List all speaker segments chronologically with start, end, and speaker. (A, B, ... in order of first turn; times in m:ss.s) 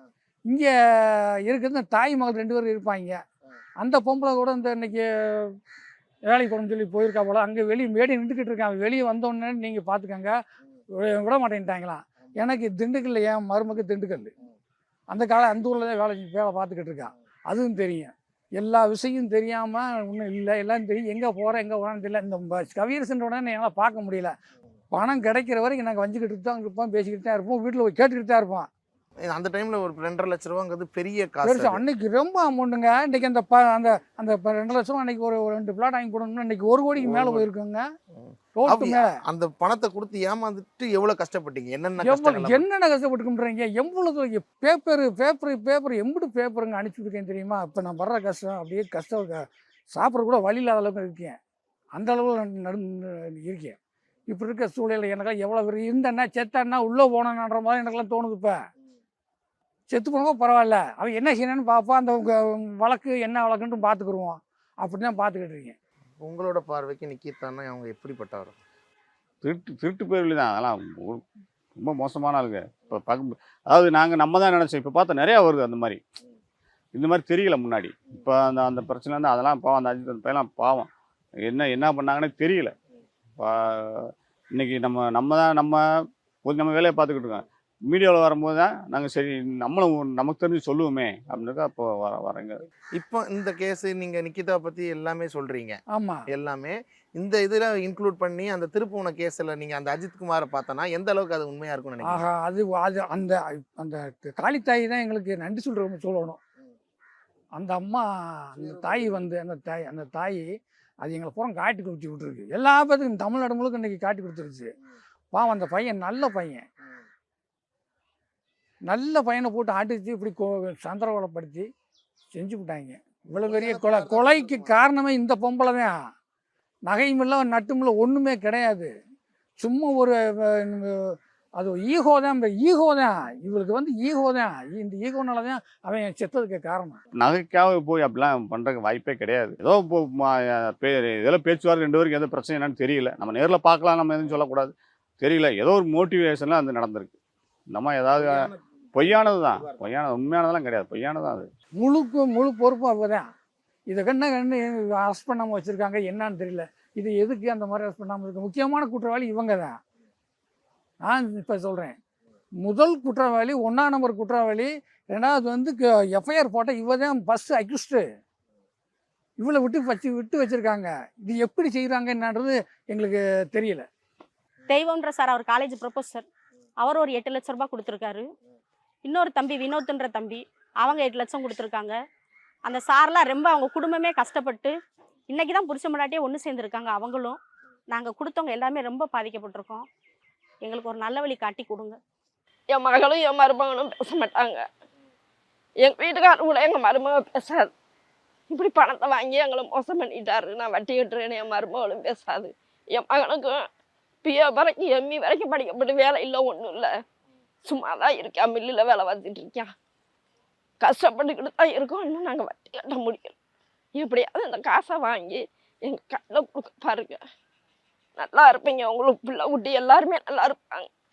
0:00.5-0:03.2 A
0:03.8-0:05.5 A
0:06.3-0:10.3 A
0:11.0-0:14.3 A
0:15.1-0:24.3 A
0:24.9-0:28.7 A
0:29.2-0:31.8 B
0:31.4-0:37.8 A
0:37.0-0:37.5 B
0:38.2-0:42.6 B
0:38.6-0:39.1 A
0:42.0-0:51.4 A
0:51.9-0:53.8 A
0:54.3-0:58.6 A
0:59.9-1:05.7 A
1:06.2-1:08.6 B
1:09.4-1:11.2 C
1:11.8-1:16.0 C
1:16.9-1:20.9 C
1:21.4-1:22.7 C
1:23.4-1:25.8 C
1:26.4-1:32.6 C
1:33.0-1:35.8 B
1:35.9-1:36.2 A
1:36.3-1:42.2 B
1:42.0-1:46.4 A
1:47.6-1:50.5 A
1:48.6-1:49.2 B
1:51.0-1:54.7 A
1:55.3-1:56.6 A
1:58.9-2:01.7 A
2:02.3-2:05.9 A
2:03.4-2:04.7 B
2:06.9-2:08.9 A
2:09.6-2:17.0 A
2:17.2-2:27.2 C
2:27.7-2:31.5 C
2:31.8-2:33.3 A
2:33.9-2:39.8 A
2:41.0-2:42.0 A
2:42.6-2:48.0 A
2:49.4-2:53.8 A
2:54.7-2:56.2 D
2:56.8-2:58.2 D
2:59.0-3:01.9 D
3:02.6-3:04.7 D
3:05.3-3:07.4 D
3:07.9-3:09.8 D
3:10.6-3:12.0 D
3:12.7-3:14.6 E
3:15.8-3:17.7 E
3:18.5-3:23.6 E
3:24.2-3:26.9 E
3:27.6-3:29.7 E
3:30.8-3:33.3 E
3:34.0-3:37.2 E
3:38.2-3:40.9 E